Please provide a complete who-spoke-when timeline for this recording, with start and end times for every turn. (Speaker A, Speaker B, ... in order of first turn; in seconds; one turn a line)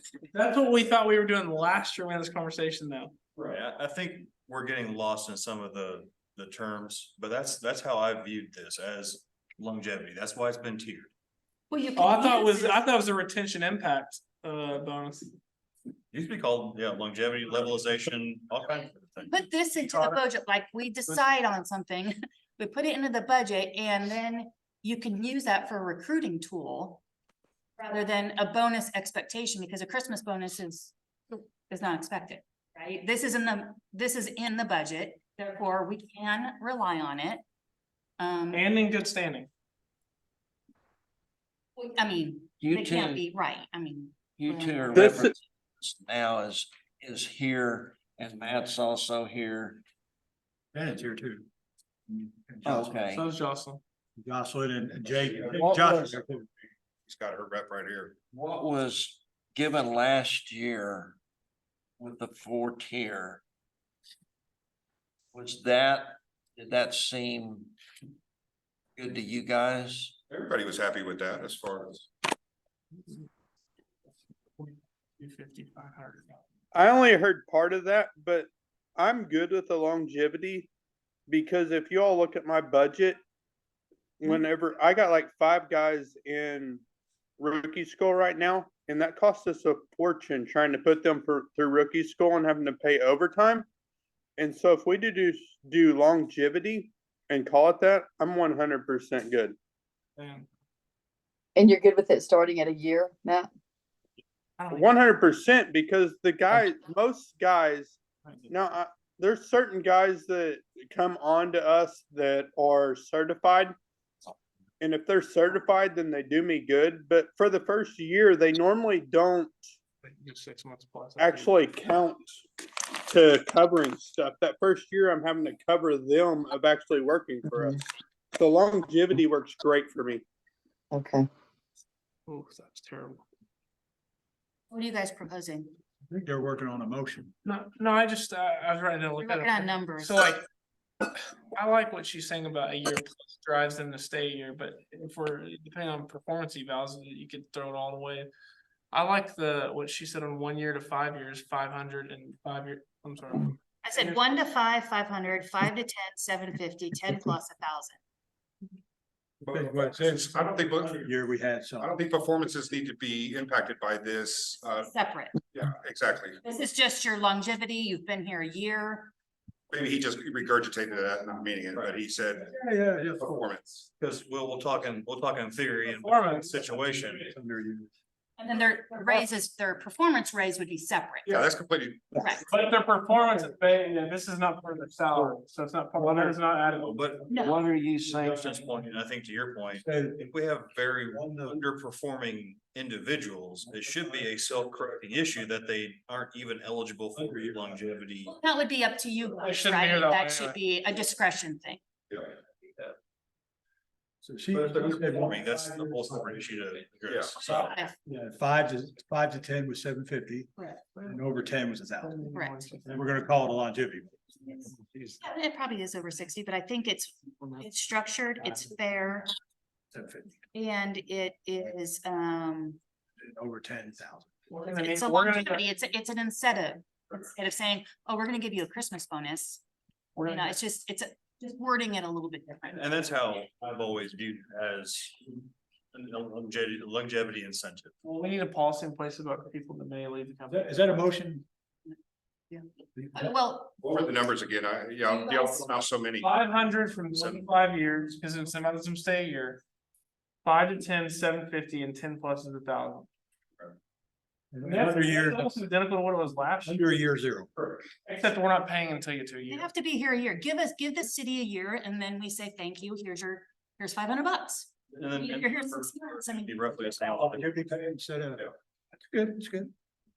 Speaker A: 0.2-3.1
Speaker B: 3.4-11.1
Speaker C: 11.7-12.8
Speaker A: 12.0-15.3
Speaker B: 16.1-19.4
Speaker C: 19.3-27.0
Speaker C: 27.8-37.4
Speaker C: 38.2-38.7
Speaker A: 38.5-39.5
Speaker C: 41.8-45.1
Speaker D: 42.6-43.2
Speaker D: 44.3-49.8
Speaker E: 45.0-45.3
Speaker F: 50.7-51.5
Speaker F: 52.1-53.0
Speaker D: 52.6-53.3
Speaker A: 53.1-53.8
Speaker F: 54.2-56.4
Speaker G: 55.0-56.3
Speaker G: 57.1-58.1
Speaker D: 58.3-61.2
Speaker D: 62.0-63.4
Speaker D: 65.3-67.7
Speaker D: 69.0-70.2
Speaker G: 70.3-72.1
Speaker A: 74.6-76.4
Speaker E: 76.7-80.7
Speaker E: 81.3-83.2
Speaker E: 84.2-86.8
Speaker E: 87.4-93.7
Speaker E: 94.4-99.6
Speaker A: 100.2-100.5
Speaker H: 101.6-103.5
Speaker A: 104.6-104.9
Speaker E: 104.7-113.8
Speaker E: 114.8-119.7
Speaker A: 120.0-121.5
Speaker E: 121.2-127.8
Speaker H: 127.5-127.8
Speaker E: 128.3-130.2
Speaker H: 130.9-131.3
Speaker A: 132.3-133.2
Speaker C: 134.7-135.7
Speaker F: 136.1-137.3
Speaker A: 137.4-140.4
Speaker C: 139.2-140.3
Speaker A: 141.5-148.3
Speaker A: 148.9-154.2
Speaker C: 153.8-158.0
Speaker G: 159.4-161.1
Speaker F: 159.5-161.9
Speaker G: 161.8-166.4
Speaker C: 164.6-165.4
Speaker C: 166.4-169.1
Speaker G: 169.7-172.5
Speaker F: 172.4-173.4
Speaker G: 173.2-173.9
Speaker B: 174.0-177.3
Speaker A: 176.0-176.5
Speaker F: 177.2-177.9
Speaker C: 178.4-181.4
Speaker G: 181.3-182.2
Speaker C: 182.2-182.5
Speaker A: 182.5-187.0
Speaker F: 186.0-186.3
Speaker B: 186.8-187.4
Speaker C: 187.3-187.6
Speaker D: 187.4-188.4
Speaker B: 188.0-198.3
Speaker F: 189.8-190.3
Speaker F: 191.1-191.6
Speaker C: 198.3-201.8
Speaker A: 199.4-200.6
Speaker G: 202.1-202.3
Speaker F: 204.2-206.1
Speaker B: 204.5-207.8
Speaker G: 207.1-207.4
Speaker C: 207.4-207.9
Speaker F: 208.1-212.3
Speaker C: 210.6-210.9
Speaker A: 212.0-213.1
Speaker C: 212.3-212.7
Speaker F: 212.8-215.2
Speaker C: 215.2-219.3
Speaker F: 219.9-220.4
Speaker C: 220.5-222.8
Speaker F: 223.2-224.3
Speaker A: 224.5-225.7
Speaker C: 224.7-229.6
Speaker A: 230.2-230.5
Speaker C: 230.3-233.0
Speaker B: 232.7-235.2
Speaker B: 235.9-237.9
Speaker A: 238.0-241.0
Speaker F: 240.5-241.4
Speaker F: 243.0-243.3
Speaker C: 243.1-243.8
Speaker G: 243.8-246.3
Speaker C: 245.1-245.8
Speaker A: 246.2-249.6
Speaker B: 247.1-247.7
Speaker A: 250.4-253.1
Speaker F: 254.5-255.6
Speaker A: 254.6-256.8
Speaker F: 256.6-257.5
Speaker A: 258.0-259.7
Speaker C: 259.5-266.9
Speaker B: 264.9-267.5
Speaker F: 267.0-268.5
Speaker F: 269.1-269.7